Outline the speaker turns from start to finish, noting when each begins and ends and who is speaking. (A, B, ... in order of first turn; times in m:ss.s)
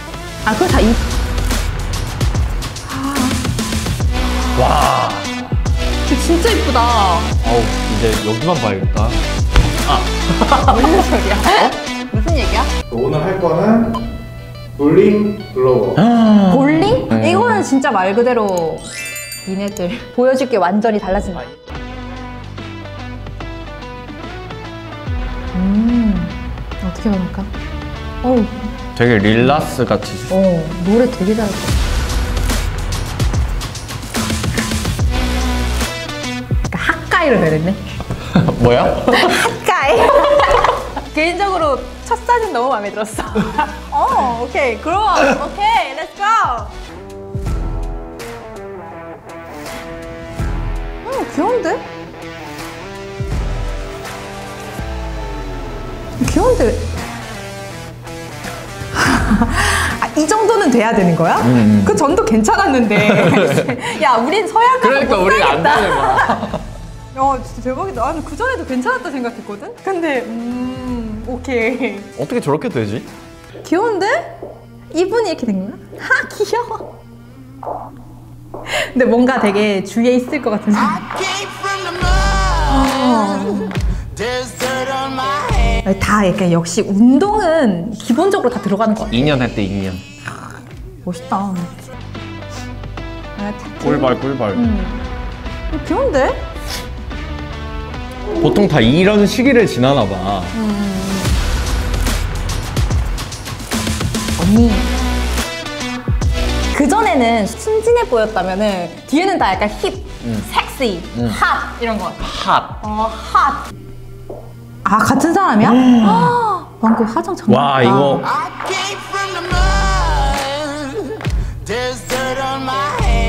0:00.4-0:01.0 A
0:02.8-0:03.5 A
0:04.5-0:05.5 B
0:06.0-0:07.4 A
0:07.4-0:09.2 B
0:09.8-0:11.7 B
0:10.6-0:12.7 A
0:13.0-0:13.7 B
0:13.0-0:13.8 C
0:14.8-0:15.9 C
0:15.9-0:17.6 B
0:16.4-0:18.9 A
0:19.4-0:21.5 A
0:25.5-0:27.5 A
0:28.2-0:28.6 A
0:28.9-0:30.4 B
0:30.3-0:31.7 A
0:36.7-0:37.8 A
0:38.3-0:39.5 B
0:39.1-0:46.7 A
0:51.0-0:51.8 A
0:56.2-0:56.9 A
0:58.9-1:06.5 A
1:01.4-1:02.0 B
1:03.0-1:03.8 B
1:04.8-1:06.6 B
1:07.1-1:12.1 A
1:12.2-1:13.1 B
1:13.6-1:14.4 A
1:14.9-1:16.9 A
1:18.7-1:21.1 A
1:22.7-1:23.8 A
1:25.8-1:29.3 A
1:29.1-1:30.0 B
1:31.0-1:31.7 A
1:33.4-1:35.1 A
1:33.8-1:34.7 B
1:35.7-1:36.5 A
1:38.4-1:40.6 B
1:40.5-1:41.4 A
1:44.4-1:44.9 A
1:46.7-1:52.3 A
1:50.2-1:50.5 B
1:51.1-1:51.4 B
1:52.2-1:52.8 B
1:52.8-1:53.6 A
1:54.8-1:58.3 A
1:55.6-1:56.4 B
1:57.5-1:58.3 B